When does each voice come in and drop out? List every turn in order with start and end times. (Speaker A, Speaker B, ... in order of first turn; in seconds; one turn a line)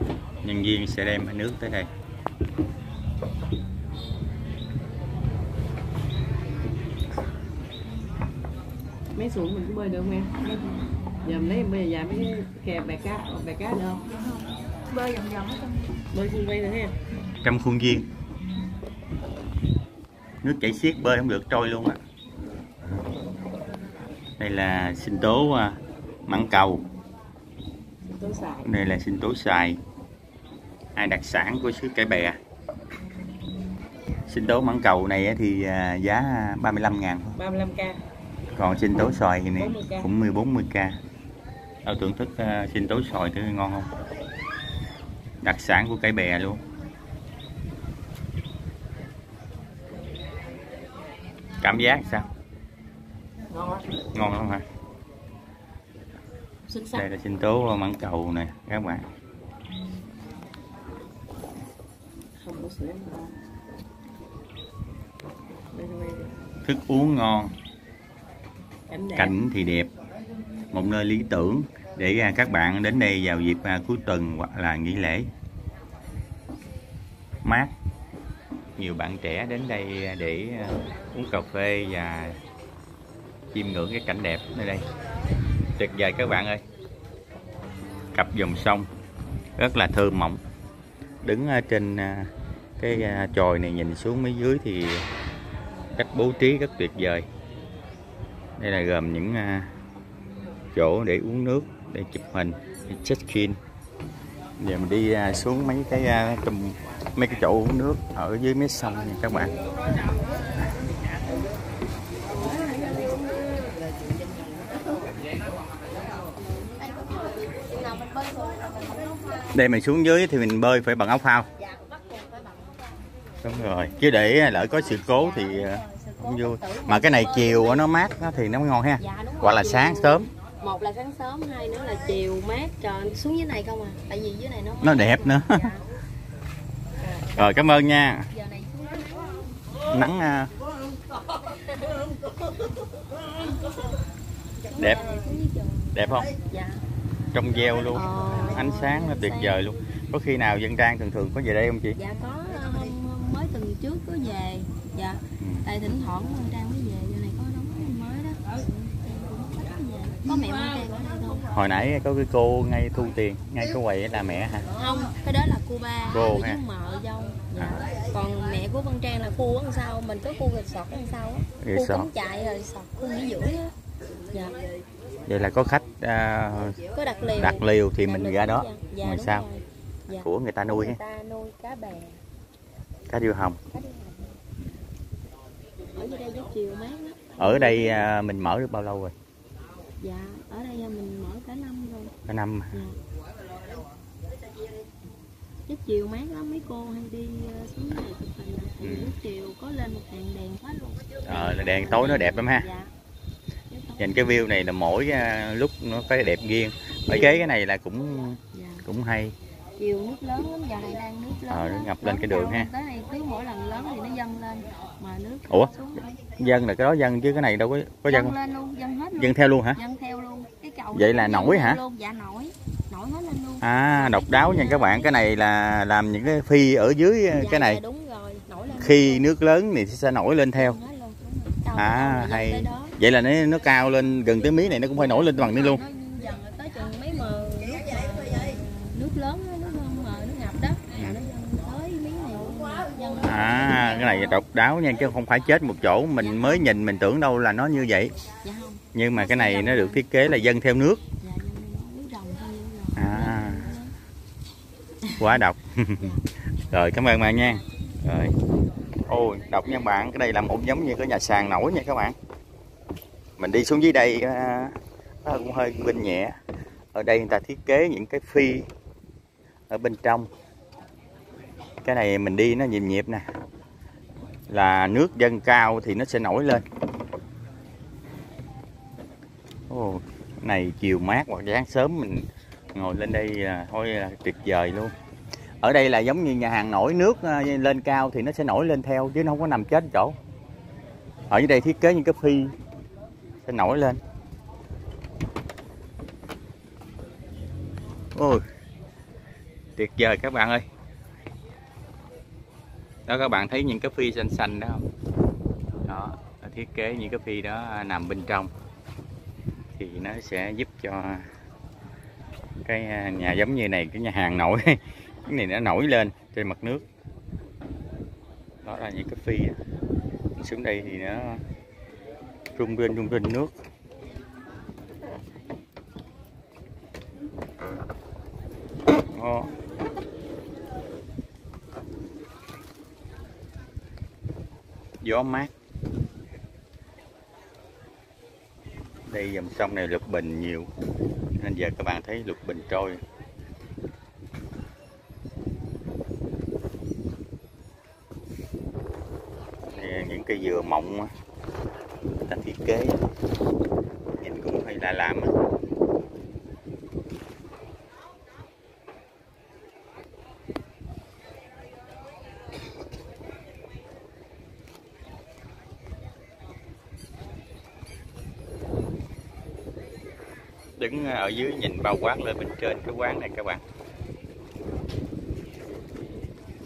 Speaker A: 0.4-1.9
Speaker B: 9.1-10.4
Speaker B: 11.2-14.1
Speaker C: 14.9-16.0
Speaker B: 16.1-16.9
Speaker A: 17.4-18.1
Speaker A: 20.4-22.0
Speaker A: 24.4-26.9
Speaker B: 28.2-28.6
Speaker A: 28.6-29.8
Speaker A: 30.9-32.4
Speaker A: 34.3-37.4
Speaker B: 37.4-38.0
Speaker A: 38.5-41.0
Speaker B: 39.6-40.1
Speaker A: 41.8-43.9
Speaker A: 45.4-46.6
Speaker A: 51.6-52.3
Speaker B: 53.5-53.8
Speaker A: 54.1-54.6
Speaker A: 56.9-59.0
Speaker B: 62.4-63.4
Speaker B: 65.7-66.3
Speaker A: 66.6-67.5
Speaker B: 68.9-69.3
Speaker A: 69.1-69.9
Speaker A: 70.7-75.3
Speaker A: 77.4-77.7
Speaker A: 78.8-82.4
Speaker A: 83.5-84.9
Speaker A: 85.8-86.6
Speaker A: 88.1-88.9
Speaker A: 89.6-90.4
Speaker A: 91.2-95.0
Speaker A: 96.0-97.3
Speaker A: 98.6-99.7
Speaker A: 100.7-103.6
Speaker A: 104.6-109.5
Speaker C: 112.3-113.5
Speaker C: 116.8-119.5
Speaker A: 119.5-121.5
Speaker C: 121.6-122.8
Speaker A: 123.4-130.3
Speaker C: 124.1-127.9
Speaker C: 129.0-135.9
Speaker A: 134.8-135.7
Speaker A: 137.3-138.3
Speaker C: 138.3-139.6
Speaker A: 139.9-140.5
Speaker C: 144.7-146.8
Speaker A: 145.9-146.3
Speaker A: 147.3-152.0
Speaker C: 147.8-149.6
Speaker C: 152.0-161.5
Speaker A: 155.4-155.7
Speaker A: 161.5-164.7
Speaker C: 164.7-173.7
Speaker A: 166.1-166.6
Speaker A: 167.6-167.9
Speaker A: 171.6-172.1
Speaker C: 174.3-174.6
Speaker A: 175.2-176.8
Speaker C: 176.8-182.2
Speaker A: 177.3-179.4
Speaker A: 180.1-181.0
Speaker A: 183.1-183.6
Speaker C: 183.7-184.4
Speaker C: 185.9-188.1
Speaker A: 187.4-189.1
Speaker C: 190.0-192.1
Speaker A: 192.3-192.7
Speaker C: 195.7-202.9
Speaker A: 198.8-199.1
Speaker A: 201.2-202.7
Speaker C: 203.7-204.5
Speaker A: 204.0-209.3
Speaker C: 207.1-207.5
Speaker C: 208.5-208.8
Speaker C: 209.8-216.2
Speaker A: 211.5-212.7
Speaker A: 216.4-218.3
Speaker C: 218.1-225.3
Speaker A: 219.2-219.8
Speaker A: 220.9-221.8
Speaker A: 223.6-227.8
Speaker C: 227.3-229.3
Speaker A: 228.8-230.8
Speaker C: 230.6-232.9
Speaker A: 231.8-235.8
Speaker C: 234.9-244.4
Speaker A: 243.2-248.1
Speaker C: 246.2-246.8
Speaker C: 248.4-250.1
Speaker A: 248.9-251.0
Speaker C: 251.2-253.9
Speaker A: 252.9-253.7
Speaker C: 255.1-255.3
Speaker A: 255.2-258.3
Speaker A: 259.1-262.1
Speaker A: 263.4-266.4
Speaker A: 266.9-268.7
Speaker A: 269.7-270.3
Speaker A: 271.8-273.2
Speaker A: 274.5-276.6
Speaker A: 279.7-284.9
Speaker A: 285.6-290.2
Speaker A: 291.3-292.5
Speaker A: 293.4-294.0
Speaker A: 298.1-298.4
Speaker A: 299.8-300.6
Speaker A: 303.1-304.9
Speaker A: 305.8-308.5
Speaker A: 309.8-311.3
Speaker A: 312.6-316.8
Speaker A: 318.6-319.6
Speaker A: 320.4-321.4
Speaker A: 322.5-323.5
Speaker A: 329.1-329.5
Speaker A: 335.0-335.5
Speaker A: 339.0-340.7
Speaker A: 341.4-343.0
Speaker A: 349.7-351.1
Speaker A: 352.3-353.0
Speaker A: 354.2-355.3
Speaker A: 370.8-373.6